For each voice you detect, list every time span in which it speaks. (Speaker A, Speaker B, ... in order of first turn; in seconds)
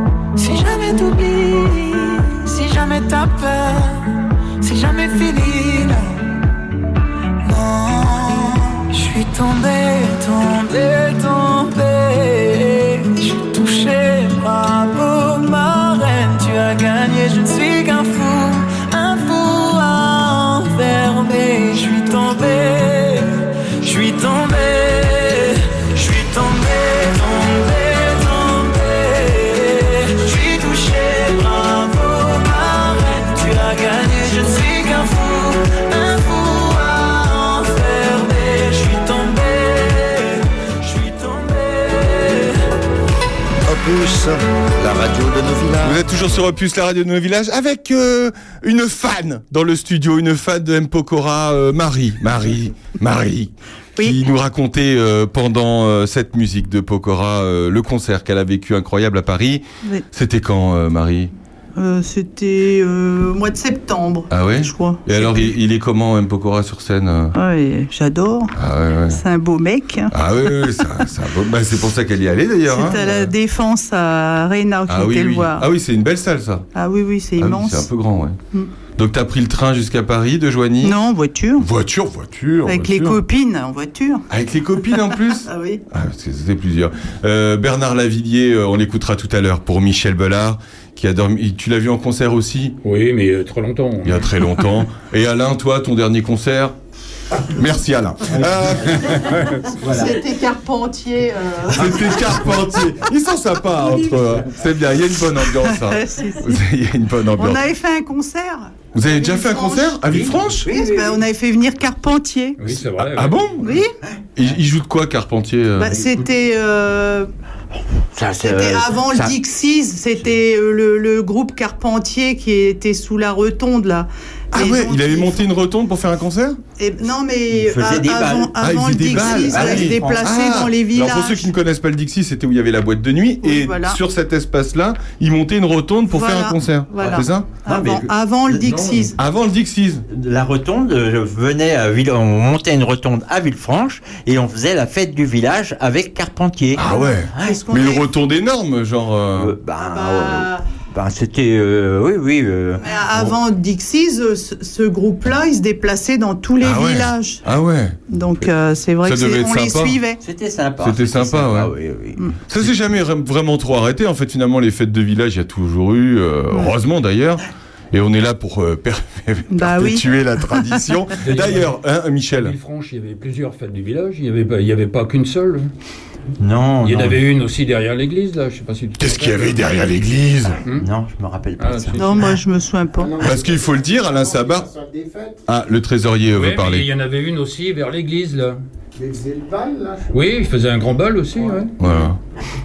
Speaker A: 0.4-6.2, 7.4-42.6
Speaker B: 43.7-46.0
Speaker C: 45.8-61.3, 64.3-67.3, 68.5-69.2, 70.1-73.3, 74.9-76.7, 77.4-78.4, 79.0-81.0, 81.6-83.2, 84.3-92.8, 94.0-96.7, 97.5-99.3, 101.7-107.6, 108.9-110.7, 112.9-113.8, 114.4-116.0, 124.5-126.6, 128.6-137.5, 139.2-140.1, 146.8-149.5, 156.6-158.0, 159.0-160.0, 160.8-161.7, 162.5-172.6, 179.0-180.6, 183.2-184.7, 185.5-186.9, 191.8-192.2
Speaker D: 61.8-65.5, 67.3-68.5, 69.1-70.1, 72.7-75.7, 76.7-77.9, 80.8-81.7, 82.7-84.2, 85.4-85.8, 99.8-103.0, 103.8-104.2, 105.3-106.6, 107.3-112.7, 113.6-113.9, 115.8-117.3, 118.4-125.5, 126.8-131.5, 133.4-134.0, 136.1-139.2, 146.8-148.1, 149.8-150.7, 152.8-157.4, 158.1-160.2, 169.5-170.9, 182.0-183.3
Speaker E: 92.8-94.2, 99.1-99.7, 112.6-113.5, 171.2-171.8, 172.3-175.7, 176.8-179.7, 181.6-182.2, 186.3-188.6, 190.1-191.8
Speaker F: 99.8-100.2, 110.6-111.2, 118.1-119.4, 127.5-130.6, 137.0-139.1, 140.1-147.6, 149.4-153.3, 160.2-162.7, 176.4-177.2, 180.7-182.3